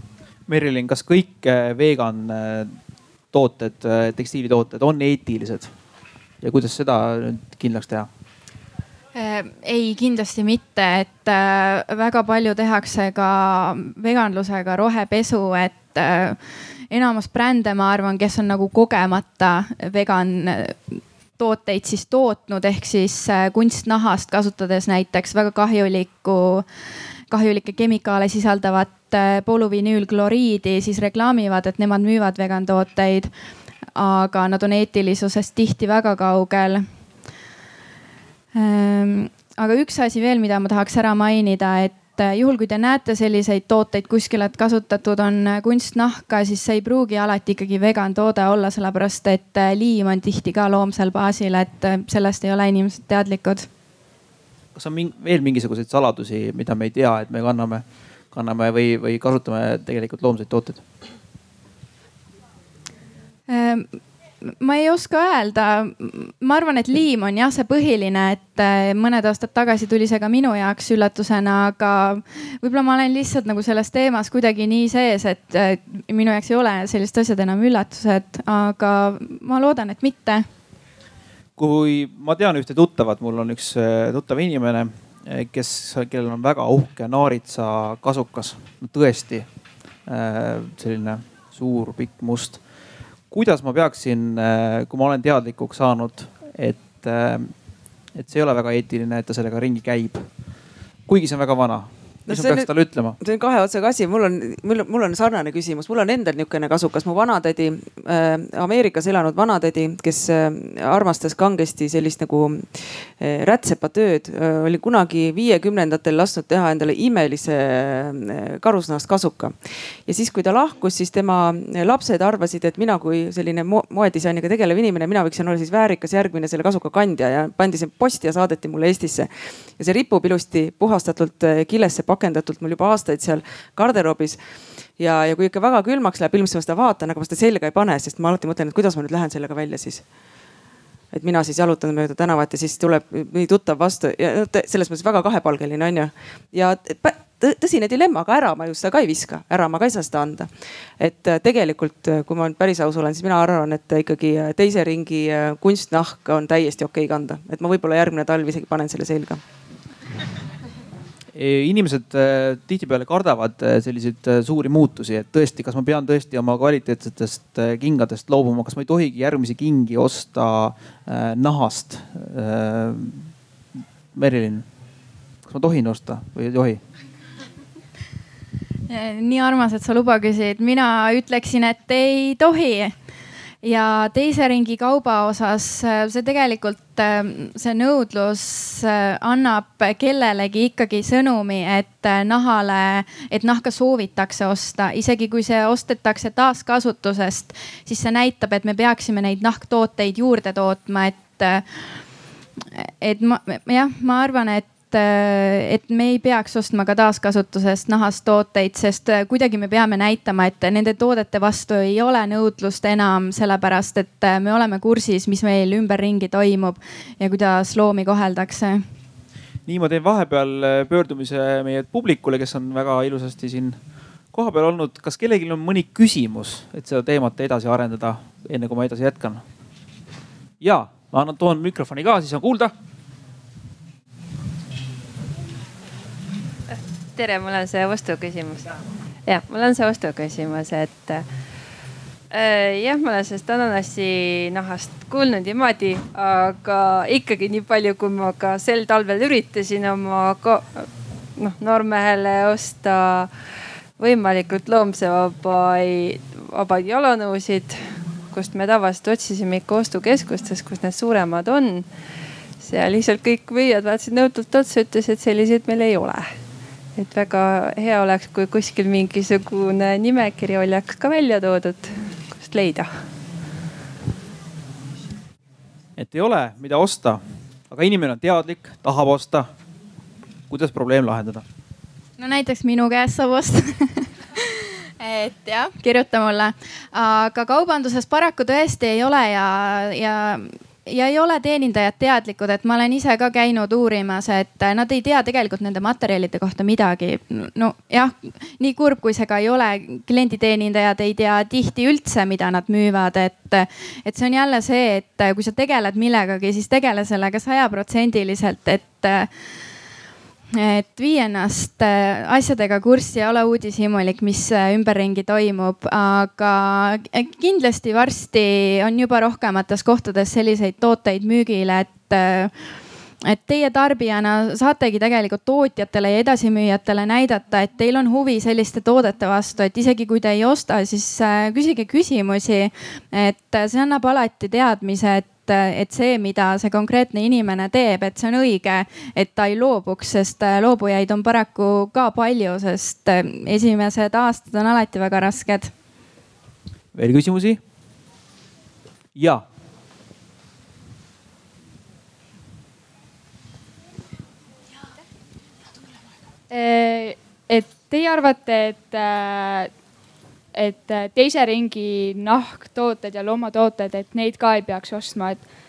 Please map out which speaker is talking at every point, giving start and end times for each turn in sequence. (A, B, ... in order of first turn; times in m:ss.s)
0:00.5-0:02.7 A
0:03.3-0:05.7 A
0:06.4-0:08.1 A
0:09.2-0:16.4 B
0:16.9-0:20.8 B
0:21.4-0:26.7 B
0:27.3-0:33.3 B
0:34.0-0:36.8 B
0:38.6-0:53.7 B
0:54.8-1:00.8 A
1:03.5-1:03.9 B
1:04.4-1:20.4 B
1:21.6-1:29.5 A
1:30.1-1:32.6 A
1:33.3-1:37.5 A
1:38.2-1:40.2 A
1:41.1-1:43.2 A
1:42.3-1:42.7 C
1:43.2-2:14.4 C
2:15.0-2:20.0 C
2:21.1-2:39.4 C
2:41.3-2:53.3 A
2:54.1-2:54.6 A
2:55.4-2:56.8 A
2:58.9-3:02.9 B
3:03.6-3:21.6 B
3:22.8-3:38.8 B
3:39.7-3:43.8 A
3:44.3-3:49.4 A
3:50.6-3:52.7 A
3:56.7-3:58.7 D
3:59.2-4:01.3 D
4:02.3-4:13.3 D
4:14.0-4:21.9 D
4:22.6-4:26.3 D
4:27.0-4:32.9 D
4:36.0-4:39.5 A
4:40.5-4:41.4 A
4:42.2-5:09.3 B
5:10.6-5:22.5 B
5:23.3-5:45.7 B
5:46.9-5:47.6 A
5:49.2-5:49.4 A
5:56.5-5:59.7 E
6:00.5-6:05.5 E